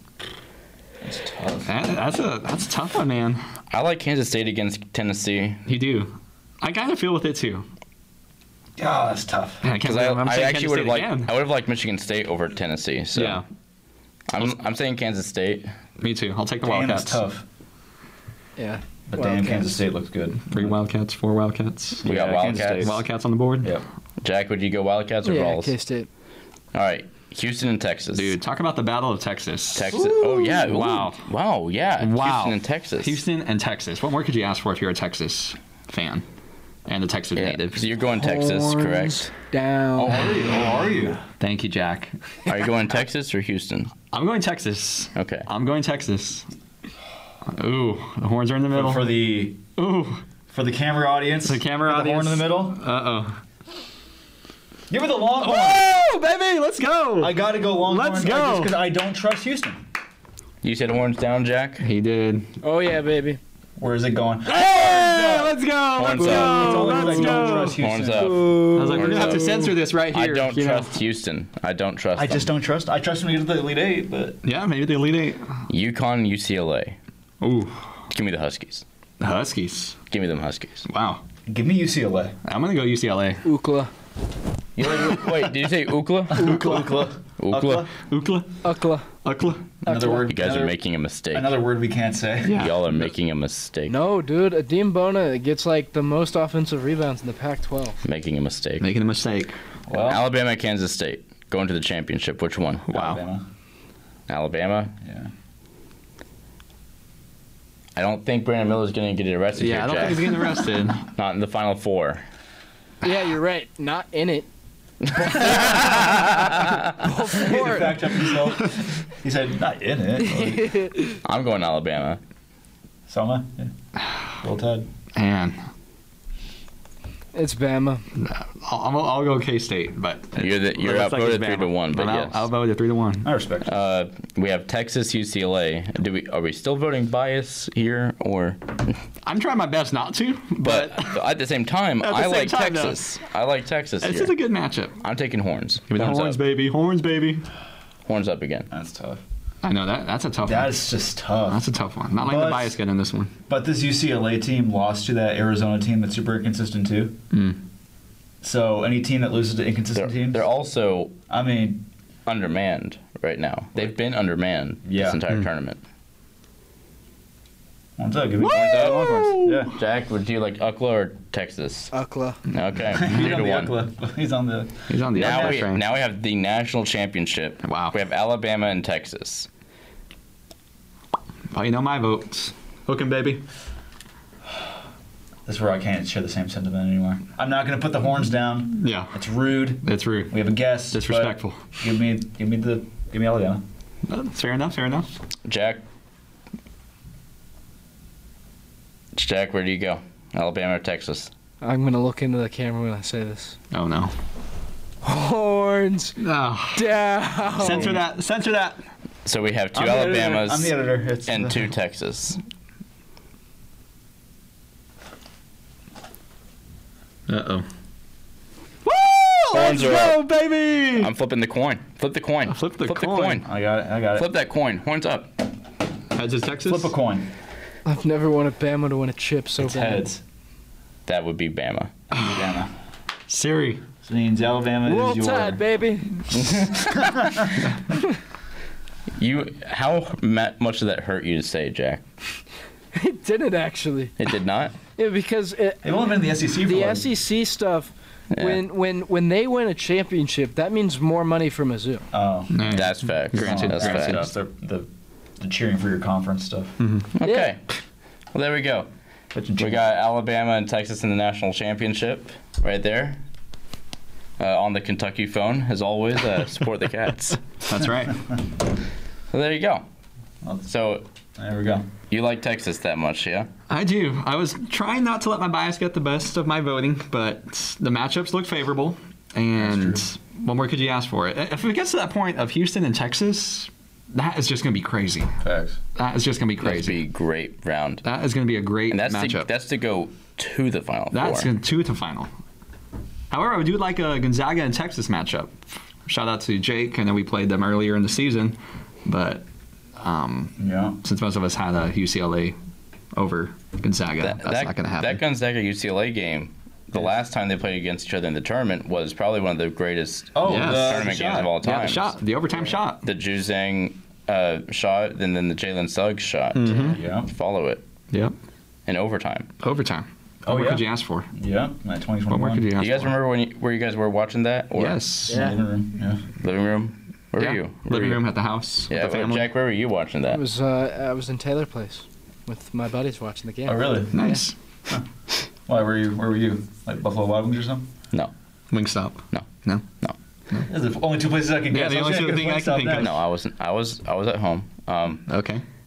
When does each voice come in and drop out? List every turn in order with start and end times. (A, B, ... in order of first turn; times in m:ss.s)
0:01.0-0:01.7 A
0:01.6-0:03.4 B
0:03.7-0:05.6 C
0:05.6-0:07.7 B
0:08.8-0:09.6 A
0:09.6-0:11.3 B
0:09.8-0:13.4 C
0:13.1-0:13.4 B
0:14.3-0:15.7 C
0:16.0-0:17.2 B
0:16.6-0:17.4 A
0:18.6-0:19.8 D
0:19.1-0:20.8 A
0:20.5-0:22.1 B
0:22.0-0:23.0 A
0:22.0-0:22.9 C
0:22.8-0:23.8 B
0:24.2-0:25.7 C
0:25.2-0:26.1 D
0:26.7-0:28.4 C
0:28.1-0:31.2 B
0:29.7-0:33.2 C
0:32.0-0:36.2 B
0:36.8-0:37.8 B
0:37.4-0:39.3 C
0:38.1-0:40.3 D
0:40.0-0:41.2 A
0:41.4-0:42.1 B
0:42.5-0:44.0 C
0:44.1-0:46.4 B
0:45.2-0:45.5 C
0:47.5-0:49.1 B
0:48.7-0:49.6 A
0:49.7-0:50.2 B
0:50.5-0:52.8 A
0:51.4-0:53.4 B
0:54.9-0:55.8 A
0:55.4-0:58.7 B
0:57.2-0:59.8 A
1:00.6-1:01.8 C
1:01.8-1:02.5 B
1:02.6-1:03.4 D
1:03.8-1:05.6 A
1:04.5-1:07.8 B
1:05.9-1:12.5 C
1:06.2-1:09.2 A
1:08.2-1:09.2 D
1:08.7-1:10.9 B
1:12.1-1:14.4 A
1:14.4-1:15.6 B
1:15.7-1:17.0 C
1:17.4-1:17.8 B
1:18.1-1:18.8 C
1:19.2-1:20.0 B
1:20.1-1:20.8 C
1:20.9-1:21.2 B
1:21.5-1:22.4 A
1:22.4-1:23.4 B
1:23.4-1:23.9 D
1:24.8-1:26.8 C
1:26.3-1:27.9 A
1:27.4-1:27.9 C
1:28.0-1:28.5 B
1:28.6-1:29.1 D
1:29.2-1:29.8 B
1:29.8-1:30.8 A
1:29.8-1:30.3 D
1:30.3-1:31.6 C
1:31.3-1:32.7 A
1:32.4-1:32.9 B
1:32.5-1:33.9 C
1:33.9-1:38.0 D
1:38.0-1:38.9 C
1:38.8-1:39.6 B
1:39.9-1:40.2 A
1:39.9-1:42.9 C
1:42.9-1:43.2 B
1:42.9-1:43.4 A
1:44.3-1:44.9 C
1:45.0-1:45.3 A
1:48.0-1:52.2 C
1:49.6-1:51.0 B
1:53.0-1:54.5 D
1:55.1-1:58.3 D
1:55.2-1:56.8 C
1:57.3-2:00.8 A
2:00.4-2:01.2 D
2:01.2-2:02.2 C
2:03.1-2:03.7 A
2:04.4-2:04.9 A
2:05.1-2:05.6 B
2:07.3-2:08.0 D
2:08.2-2:13.3 B
2:10.4-2:12.4 C
2:13.2-2:13.7 A
2:13.6-2:19.0 C
2:19.2-2:21.2 B
2:20.6-2:24.4 C
2:22.0-2:23.0 B
2:24.0-2:25.0 B
2:25.0-2:26.4 C
2:25.9-2:27.4 B
2:28.1-2:28.7 C
2:28.7-2:29.2 A
2:29.6-2:30.8 B
2:30.4-2:31.6 A
2:31.5-2:33.3 B
2:32.2-2:32.8 A
2:33.5-2:37.2 A
2:37.3-2:37.6 B
2:38.4-2:40.4 A
2:40.0-2:41.2 C
2:41.3-2:41.9 A
2:42.2-2:45.8 C
2:44.8-2:45.2 A
2:48.0-2:49.7 A
2:48.4-2:49.6 B
2:48.5-2:51.9 C
2:51.9-2:52.4 D
2:52.5-2:53.7 C
2:52.9-2:55.6 A
2:54.9-2:55.8 B
2:55.1-2:59.5 C
2:57.6-2:58.0 B
3:01.5-3:03.4 B
3:05.4-3:13.6 A
3:08.8-3:09.1 B
3:09.8-3:10.4 B
3:10.9-3:11.6 B
3:14.1-3:15.1 B
3:15.4-3:15.8 C
3:19.1-3:21.3 C
3:21.6-3:23.6 D
3:23.7-3:24.1 B
3:25.0-3:26.2 D
3:26.2-3:26.9 B
3:26.7-3:27.9 D
3:27.6-3:28.8 B
3:29.2-3:32.4 C
3:29.7-3:31.7 A
3:37.3-3:37.6 B
3:38.8-3:41.1 B
3:39.5-3:40.3 C
3:40.9-3:43.4 C
3:42.5-3:43.4 B
3:43.4-3:44.3 A
3:44.1-3:45.3 C
3:46.1-3:46.9 B
3:46.6-3:47.3 A
3:47.8-3:50.1 D
3:49.6-3:50.2 A
3:51.1-3:52.0 C
3:52.1-3:52.7 A
3:52.1-3:52.4 B
3:53.3-3:53.9 B
3:54.0-3:55.6 A
3:54.8-3:56.4 D
3:56.4-3:57.1 C
3:57.0-3:57.4 A
3:59.2-4:02.0 C
4:02.9-4:04.1 D
4:04.2-4:04.7 C
4:05.0-4:12.0 D
4:05.8-4:07.1 A
4:08.3-4:08.6 C
4:12.1-4:12.8 A
4:12.5-4:14.3 B
4:12.7-4:14.2 C
4:13.4-4:14.9 A
4:15.4-4:16.8 A
4:16.8-4:17.1 B
4:17.2-4:17.6 C
4:17.2-4:17.5 D
4:18.3-4:18.9 C
4:19.3-4:19.8 A
4:19.6-4:23.2 C
4:24.4-4:27.4 C
4:27.6-4:28.2 B
4:29.3-4:29.8 C
4:30.6-4:31.0 C
4:31.4-4:31.9 A
4:32.1-4:33.5 C
4:33.7-4:45.3 B
4:39.6-4:40.0 A
4:45.4-4:45.8 A
4:46.0-4:47.0 B
4:46.6-4:48.0 C
4:48.0-4:49.5 B
4:48.9-4:51.5 C
4:51.1-4:52.3 B
4:53.3-4:59.4 B
5:00.0-5:02.6 B
5:00.6-5:01.0 A
5:03.1-5:05.2 B
5:04.2-5:12.1 C
5:10.3-5:11.5 A
5:10.4-5:13.1 B
5:13.0-5:17.8 C
5:16.5-5:17.0 B
5:16.7-5:17.3 A
5:18.9-5:19.5 C
5:19.6-5:21.3 B
5:20.4-5:22.6 A
5:22.3-5:23.1 B
5:22.8-5:25.0 C
5:24.7-5:25.4 B
5:25.2-5:26.2 A
5:25.3-5:25.6 D
5:26.4-5:28.3 C
5:27.4-5:29.5 B
5:28.9-5:30.4 C
5:30.3-5:34.4 D
5:33.6-5:34.3 A
5:34.1-5:34.5 B
5:35.6-5:37.9 A
5:38.7-5:39.8 B
5:39.3-5:40.1 C
5:40.7-5:43.1 A
5:41.7-5:43.1 B
5:43.0-5:45.3 C
5:45.3-5:45.6 B